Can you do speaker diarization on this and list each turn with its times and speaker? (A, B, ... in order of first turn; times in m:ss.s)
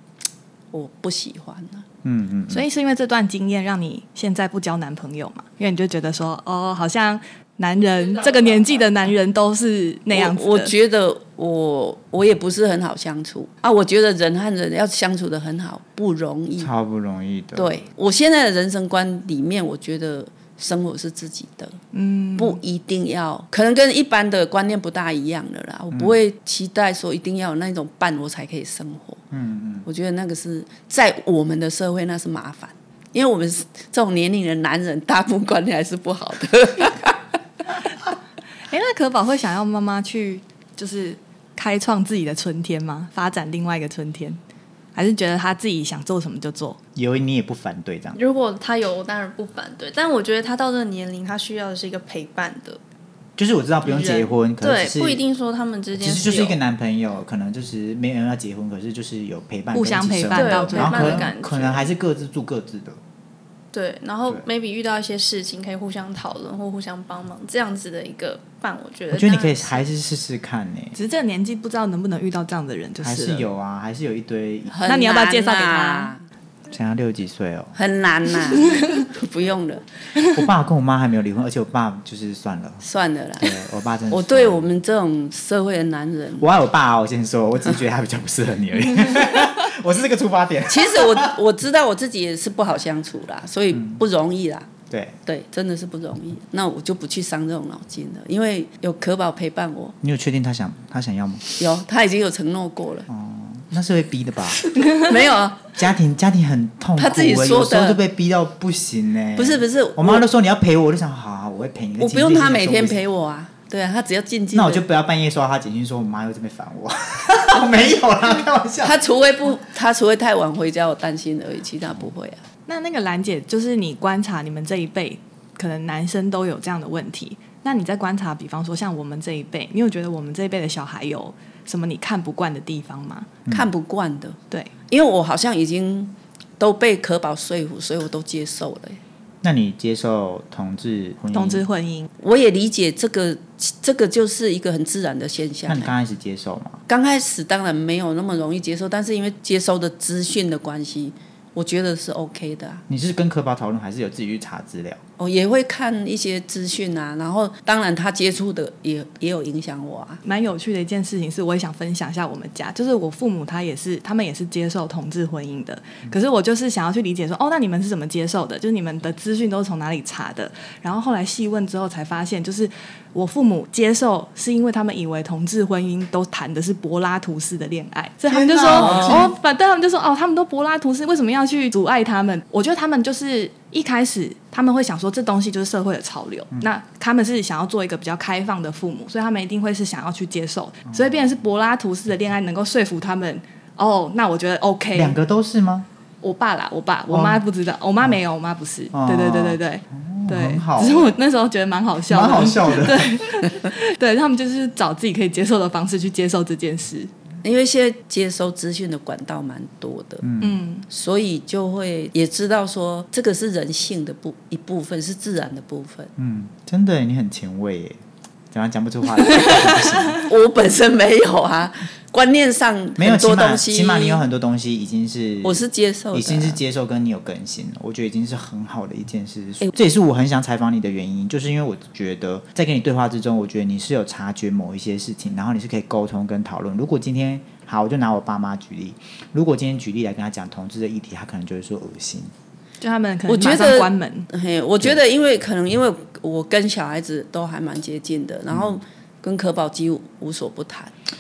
0:00.7-0:01.8 A
0:02.0-0:02.6 B
0:02.5-0:10.7 C
0:10.1-0:16.7 A
0:16.6-0:17.8 B
0:17.6-0:21.8 A
0:21.9-0:22.6 C
0:22.4-0:29.2 A
0:29.3-0:29.8 B
0:29.8-0:37.2 A
0:38.7-0:44.4 C
0:44.9-0:46.8 C
0:47.0-0:48.2 B
0:48.1-0:52.8 D
0:53.4-0:55.2 B
0:53.8-0:56.6 D
0:56.0-1:03.0 B
0:59.7-1:01.3 C
1:00.3-1:01.9 D
1:03.7-1:09.8 D
1:09.1-1:10.9 B
1:10.9-1:13.5 C
1:13.0-1:14.8 B
1:14.7-1:16.2 A
1:14.8-1:16.1 C
1:16.7-1:17.7 B
1:17.7-1:19.8 A
1:20.3-1:22.8 B
1:22.8-1:23.6 A
1:23.4-1:24.7 B
1:24.1-1:26.5 A
1:26.4-1:31.3 B
1:30.7-1:34.7 A
1:33.7-1:34.0 B
1:34.9-1:35.2 B
1:35.2-1:40.0 A
1:40.0-1:41.4 B
1:41.6-1:43.1 A
1:43.1-1:44.6 B
1:44.8-1:45.7 A
1:45.7-1:53.0 B
1:47.0-1:48.0 A
1:49.4-1:50.3 A
1:52.0-1:54.8 A
1:54.5-1:59.0 B
1:58.8-2:02.4 A
2:02.7-2:13.3 C
2:13.5-2:14.4 A
2:14.9-2:19.0 A
2:19.4-2:21.6 B
2:21.3-2:22.1 C
2:22.2-2:25.9 A
2:25.7-2:26.8 B
2:26.9-2:32.8 A
2:32.9-2:35.0 B
2:35.2-2:40.2 A
2:40.2-3:15.2 C
2:58.3-2:59.3 B
2:58.6-2:59.3 A
3:14.9-3:15.9 B
3:16.2-3:27.1 C
3:17.1-3:17.4 B
3:18.9-3:21.2 B
3:22.1-3:23.2 B
3:27.4-3:30.2 A
3:30.2-3:30.6 B
3:30.4-3:30.8 C
3:30.9-3:36.1 A
3:36.2-3:40.3 B
3:40.2-3:44.2 A
3:43.0-4:02.3 B
3:45.4-3:46.6 A
4:02.8-4:04.3 C
4:03.3-4:10.9 A
4:08.5-4:08.8 B